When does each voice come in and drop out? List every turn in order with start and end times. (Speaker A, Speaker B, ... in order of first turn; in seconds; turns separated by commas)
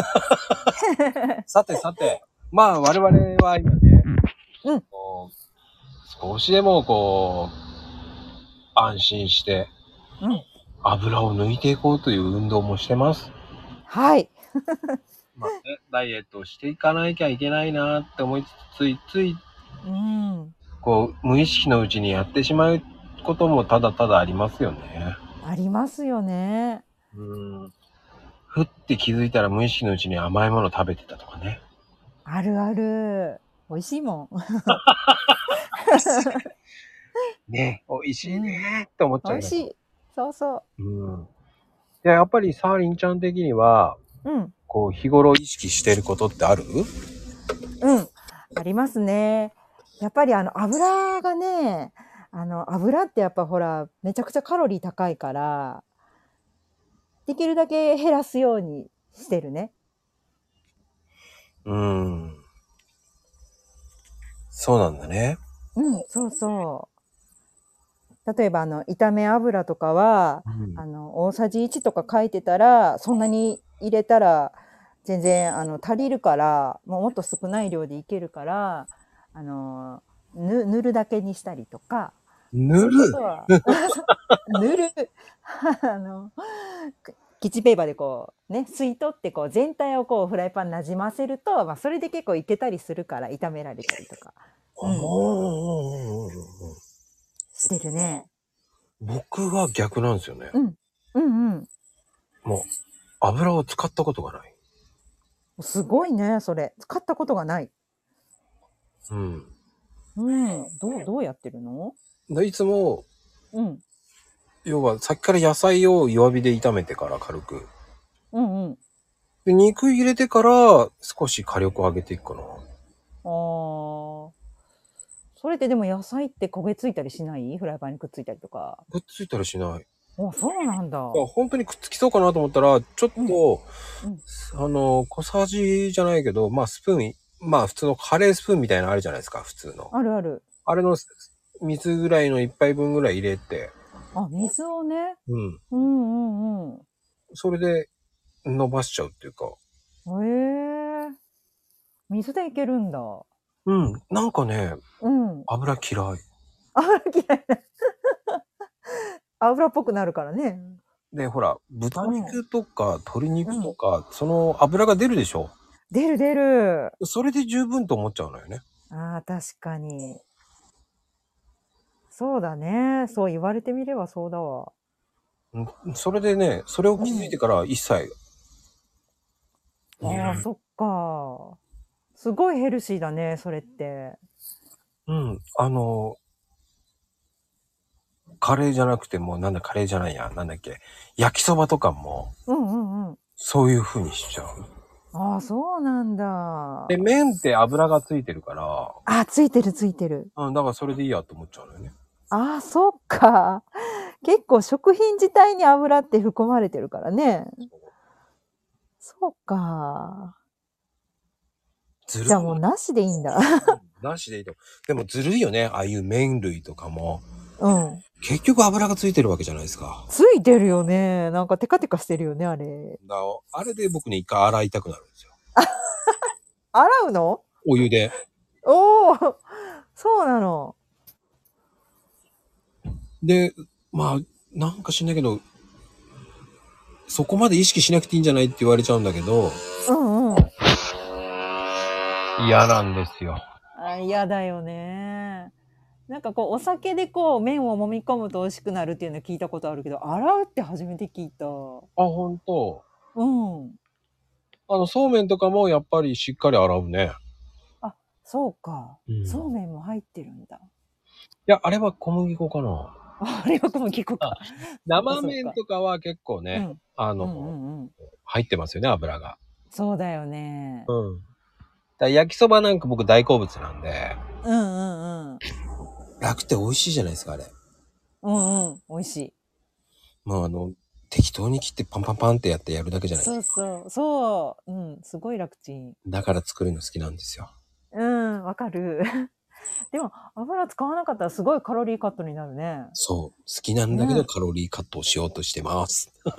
Speaker A: 0.9-1.4, Speaker B: 1.5-4.1, Speaker B: 4.9-5.3, Speaker B: 6.0-7.5, Speaker B: 8.7-9.7, Speaker B: 10.8-13.3, Speaker A: 13.9-15.5, Speaker B: 15.3-19.4, Speaker A: 19.8-20.5, Speaker B: 20.8-25.2, Speaker A: 25.4-26.8, Speaker B: 27.1-27.7, Speaker B: 28.5-31.6, Speaker A: 32.2-34.8, Speaker B: 34.8-35.4, Speaker A: 35.8-36.4, Speaker B: 37.5-39.6, Speaker A: 38.2-38.6, Speaker A: 39.2-40.6, Speaker B: 40.8-41.3, Speaker B: 42.0-44.0, Speaker A: 44.2-44.5, Speaker B: 44.7-46.9, Speaker A: 47.8-55.8, Speaker A: 57.2-59.7, Speaker B: 61.6-62.4, Speaker B: 64.5-65.4, Speaker A: 65.8-66.9, Speaker A: 68.2-82.2, Speaker B: 70.5-70.8, Speaker B: 82.5-83.6, Speaker A: 82.9-95.1, Speaker B: 94.8-96.8, Speaker A: 97.5-98.3, Speaker B: 99.0-100.5, Speaker A: 100.5-101.7, Speaker B: 103.2-104.5, Speaker A: 105.6-107.7, Speaker B: 109.1-109.5, Speaker A: 110.2-112.0, Speaker B: 112.3-113.0, Speaker A: 113.5-113.8, Speaker B: 114.6-117.7, Speaker A: 118.3-118.8, Speaker B: 119.4-122.6, Speaker A: 123.2-124.3, Speaker A: 125.3-128.8, Speaker B: 128.9-129.8, Speaker A: 130.2-131.2, Speaker B: 131.1-133.7, Speaker B: 134.3-139.9, Speaker A: 139.9-140.4, Speaker B: 140.7-143.7, Speaker A: 144.1-145.2, Speaker B: 145.3-145.6, Speaker A: 145.7-146.8, Speaker B: 147.3-147.9, Speaker B: 148.4-149.6, Speaker A: 150.1-151.2, Speaker A: 152.1-153.2, Speaker B: 153.7-154.8, Speaker A: 155.0-155.5, Speaker B: 155.5-156.2, Speaker A: 156.7-160.8, Speaker B: 161.1-165.5, Speaker A: 162.0-162.4, Speaker A: 163.4-163.7, Speaker A: 165.9-166.9, Speaker B: 167.0-168.6, Speaker A: 168.9-170.2, Speaker A: 172.1-174.7, Speaker B: 175.5-178.1, Speaker A: 177.0-177.4, Speaker B: 180.0-180.4, Speaker A: 180.0-181.6, Speaker A: 182.2-184.2, Speaker B: 185.1-186.2, Speaker B: 188.4-192.3, Speaker A: 192.5-193.2, Speaker B: 193.4-194.6, Speaker A: 195.1-197.1, Speaker B: 196.9-199.0, Speaker A: 199.1-200.3, Speaker B: 200.3-201.9, Speaker A: 202.3-207.7, Speaker A: 209.0-210.3, Speaker B: 212.1-212.6, Speaker A: 212.3-213.8, Speaker B: 213.6-217.2, Speaker A: 217.6-218.0, Speaker B: 218.2-220.1, Speaker A: 220.1-223.0, Speaker B: 223.0-225.3, Speaker A: 225.6-226.2, Speaker A: 226.7-227.4, Speaker B: 227.6-228.1, Speaker A: 228.6-230.8, Speaker B: 233.2-235.4, Speaker B: 237.1-239.6, Speaker A: 239.8-240.5, Speaker B: 242.4-243.4, Speaker A: 243.8-245.5, Speaker A: 246.1-251.9, Speaker B: 252.0-252.8, Speaker A: 253.1-253.8, Speaker B: 254.7-257.1, Speaker A: 257.8-260.7, Speaker B: 259.1-259.5, Speaker B: 261.5-262.9, Speaker A: 263.2-265.6, Speaker B: 264.2-267.5, Speaker A: 266.5-267.9, Speaker B: 268.2-269.4, Speaker A: 269.7-270.9, Speaker B: 270.9-271.2, Speaker B: 272.0-274.2, Speaker A: 274.4-275.4, Speaker B: 276.2-277.5, Speaker A: 278.2-279.3, Speaker B: 280.2-283.4, Speaker A: 283.1-286.0, Speaker B: 286.1-287.5, Speaker A: 287.9-289.3, Speaker A: 289.9-292.9, Speaker B: 292.9-296.1, Speaker A: 293.9-294.3